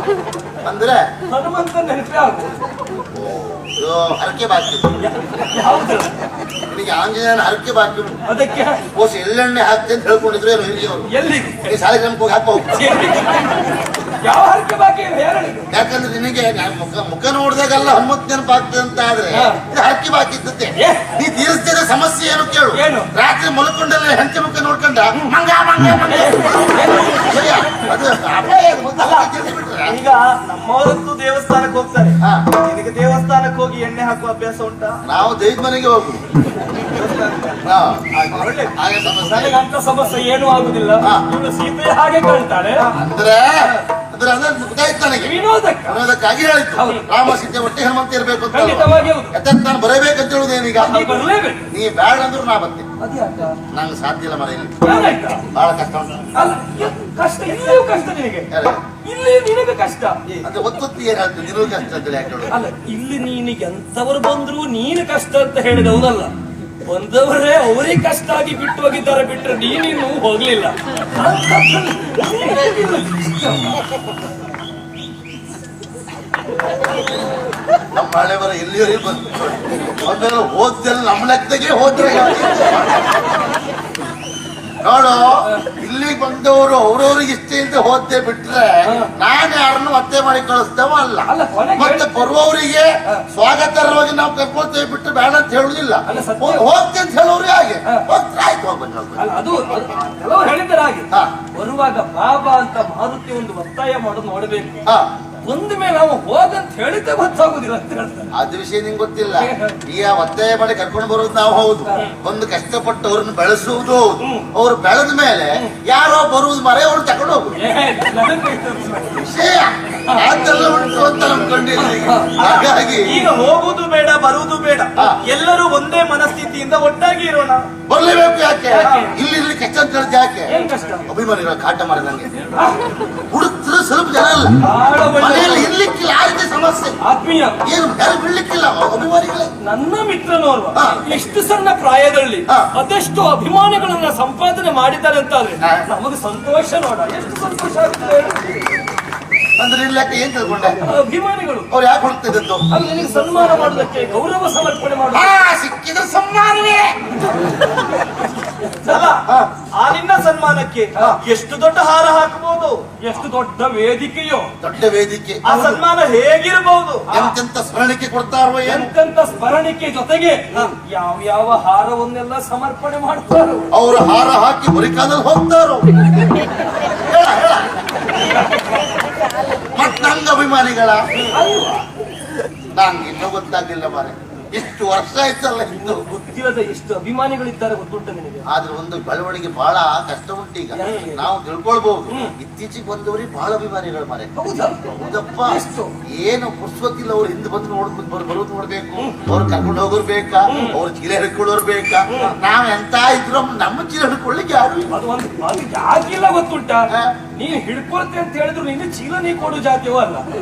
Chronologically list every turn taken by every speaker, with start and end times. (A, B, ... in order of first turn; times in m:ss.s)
0:00.6-0:01.0 A
0:01.3-0:02.5 B
0:03.1-0:04.9 A
0:05.0-0:06.1 B
0:06.7-0:08.2 A
0:08.3-0:08.8 B
0:08.9-0:11.1 A
0:11.1-0:11.7 B
0:11.6-0:12.9 A
0:12.7-0:13.7 B
0:14.2-0:15.7 B
0:15.7-0:30.0 A
0:19.3-0:19.6 B
0:20.8-0:21.1 B
0:22.7-0:23.1 B
0:26.1-0:27.6 B
0:29.0-0:29.3 C
0:29.9-0:35.0 C
0:32.2-0:32.5 A
0:35.0-0:36.2 A
0:36.8-0:38.7 C
0:37.6-0:39.6 A
0:39.2-0:42.9 B
0:42.9-0:45.4 A
0:45.2-0:46.0 B
0:45.9-0:52.9 A
0:46.8-0:47.0 B
0:48.5-0:49.4 B
0:50.8-0:51.6 B
0:53.0-0:53.6 B
0:53.7-0:54.8 A
0:54.8-0:55.4 B
0:55.5-0:56.3 A
0:56.3-0:58.5 B
0:58.5-0:58.8 A
0:59.0-1:00.2 B
1:00.4-1:02.5 A
1:02.5-1:06.3 B
1:06.8-1:13.8 B
1:17.9-1:23.2 A
1:24.8-1:39.3 A
1:28.8-1:29.1 B
1:31.3-1:32.2 B
1:36.1-1:36.6 B
1:39.2-1:44.8 B
1:45.4-1:48.3 B
1:48.3-1:57.5 A
1:49.4-1:49.8 B
1:54.2-1:54.5 B
1:57.6-1:59.3 B
1:59.2-2:03.2 A
2:00.1-2:00.4 B
2:01.8-2:02.4 B
2:02.4-2:07.7 C
2:03.0-2:03.4 B
2:07.9-2:10.5 A
2:08.7-2:09.1 B
2:08.8-2:09.1 C
2:10.5-2:11.1 B
2:11.1-2:12.3 A
2:12.6-2:12.8 B
2:13.3-2:14.6 A
2:14.6-2:15.7 B
2:15.1-2:17.0 A
2:17.0-2:17.6 B
2:17.6-2:19.5 A
2:19.6-2:28.6 B
2:20.7-2:21.0 A
2:29.6-2:30.8 A
2:30.8-2:31.7 B
2:31.7-2:32.7 A
2:32.7-2:35.3 B
2:35.1-2:37.0 A
2:38.7-2:39.1 B
2:38.8-2:42.8 C
2:43.0-2:44.5 B
2:44.6-2:45.4 A
2:45.4-2:47.1 C
2:45.5-2:45.8 B
2:47.1-2:48.9 A
2:48.6-2:53.7 B
2:53.7-2:56.3 A
2:56.9-2:57.7 A
2:58.2-2:58.7 B
2:59.7-3:01.0 A
3:01.2-3:01.8 B
3:02.7-3:06.0 A
3:05.7-3:08.4 B
3:08.5-3:14.3 A
3:10.7-3:11.3 B
3:12.1-3:12.3 B
3:14.3-3:14.9 B
3:14.8-3:24.9 A
3:15.4-3:15.9 B
3:20.5-3:20.8 B
3:24.9-3:30.2 B